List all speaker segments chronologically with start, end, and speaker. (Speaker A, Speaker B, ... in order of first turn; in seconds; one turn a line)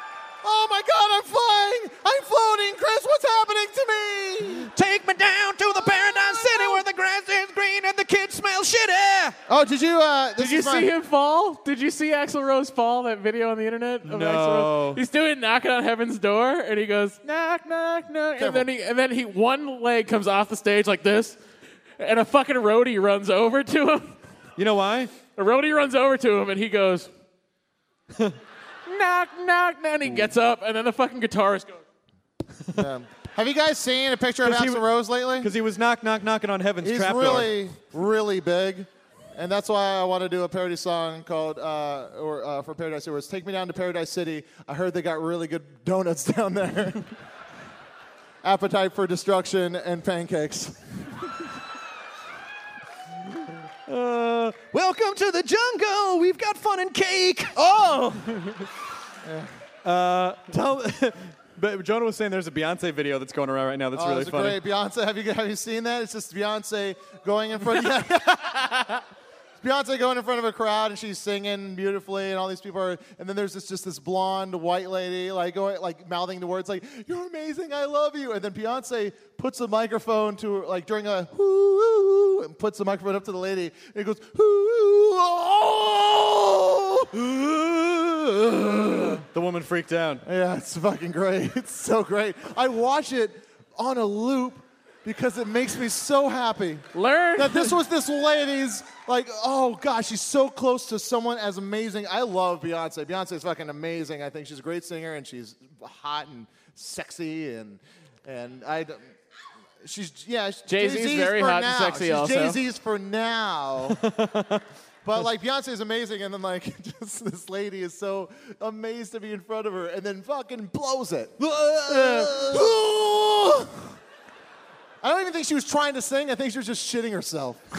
Speaker A: 0.4-4.7
Speaker B: 4.7-9.4
Speaker A: 5.8-6.8
Speaker A: 9.5-10.9
Speaker C: 10.4-21.4
Speaker B: 14.0-15.0
Speaker A: 18.4-18.7
Speaker C: 22.0-24.2
Speaker B: 24.6-25.1
Speaker C: 25.4-27.1
Speaker C: 28.9-31.8
Speaker A: 32.8-35.5
Speaker B: 34.4-34.9
Speaker B: 35.4-37.6
Speaker A: 36.8-47.0
Speaker A: 48.4-50.8
Speaker B: 53.9-57.6
Speaker A: 57.6-58.2
Speaker A: 59.2-59.5
Speaker B: 59.8-64.6
Speaker A: 63.9-69.0
Speaker A: 69.6-87.3
Speaker B: 87.3-88.0
Speaker A: 88.4-89.2
Speaker B: 89.2-90.2
Speaker A: 90.2-96.8
Speaker C: 96.9-97.8
Speaker A: 97.3-109.1
Speaker A: 109.8-114.0
Speaker C: 110.7-112.6
Speaker B: 113.9-114.6
Speaker A: 115.0-123.7
Speaker B: 121.4-122.8
Speaker A: 125.0-127.6